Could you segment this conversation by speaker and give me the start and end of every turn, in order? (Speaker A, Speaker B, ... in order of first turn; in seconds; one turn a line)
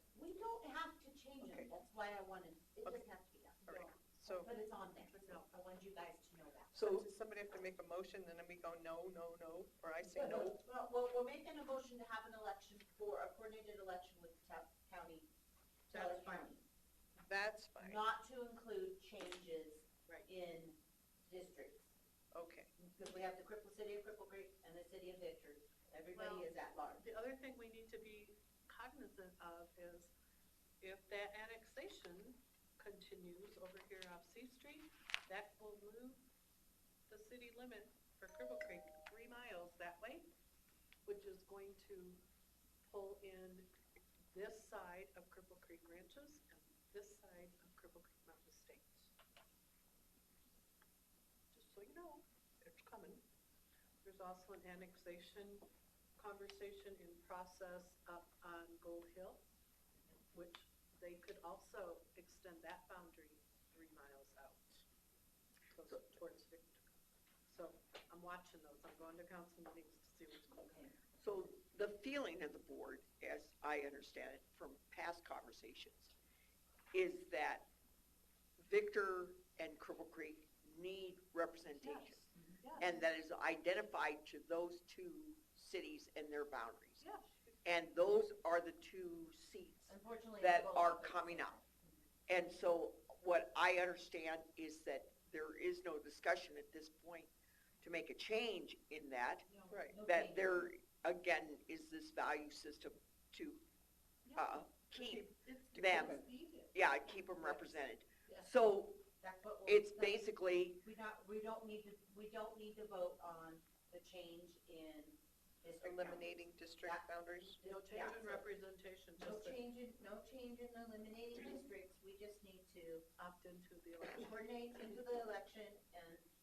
Speaker A: 0.1-3.6
Speaker B: 1.4-1.7
Speaker B: 3.6-4.5
Speaker C: 3.6-5.6
Speaker A: 4.4-6.9
Speaker B: 6.7-10.6
Speaker A: 10.1-15.3
Speaker A: 15.9-16.6
Speaker B: 15.9-16.5
Speaker B: 17.1-18.0
Speaker A: 17.8-21.9
Speaker B: 22.3-22.7
Speaker A: 22.8-27.1
Speaker C: 26.1-30.1
Speaker C: 30.8-36.2
Speaker C: 37.1-40.3
Speaker C: 41.0-42.2
Speaker C: 42.8-43.7
Speaker C: 44.3-49.1
Speaker C: 51.5-53.2
Speaker C: 54.0-59.4
Speaker C: 60.3-64.8
Speaker C: 65.7-70.6
Speaker A: 70.5-70.9
Speaker D: 71.2-76.1
Speaker D: 76.9-77.7
Speaker D: 78.6-82.2
Speaker C: 81.8-83.1
Speaker A: 82.3-82.6
Speaker D: 82.8-87.0
Speaker C: 87.0-87.6
Speaker D: 87.6-91.6
Speaker A: 89.9-92.0
Speaker D: 92.3-97.3
Speaker D: 97.8-99.4
Speaker C: 99.5-99.9
Speaker B: 99.7-100.0
Speaker A: 99.9-100.7
Speaker D: 100.0-103.6
Speaker C: 104.3-108.5
Speaker D: 104.3-106.2
Speaker D: 106.7-109.0
Speaker A: 109.2-110.2
Speaker D: 109.7-110.8
Speaker A: 110.8-117.1
Speaker B: 115.8-117.6
Speaker A: 117.6-118.5
Speaker C: 117.6-119.6
Speaker A: 119.2-123.0
Speaker C: 123.2-124.5
Speaker A: 124.1-126.2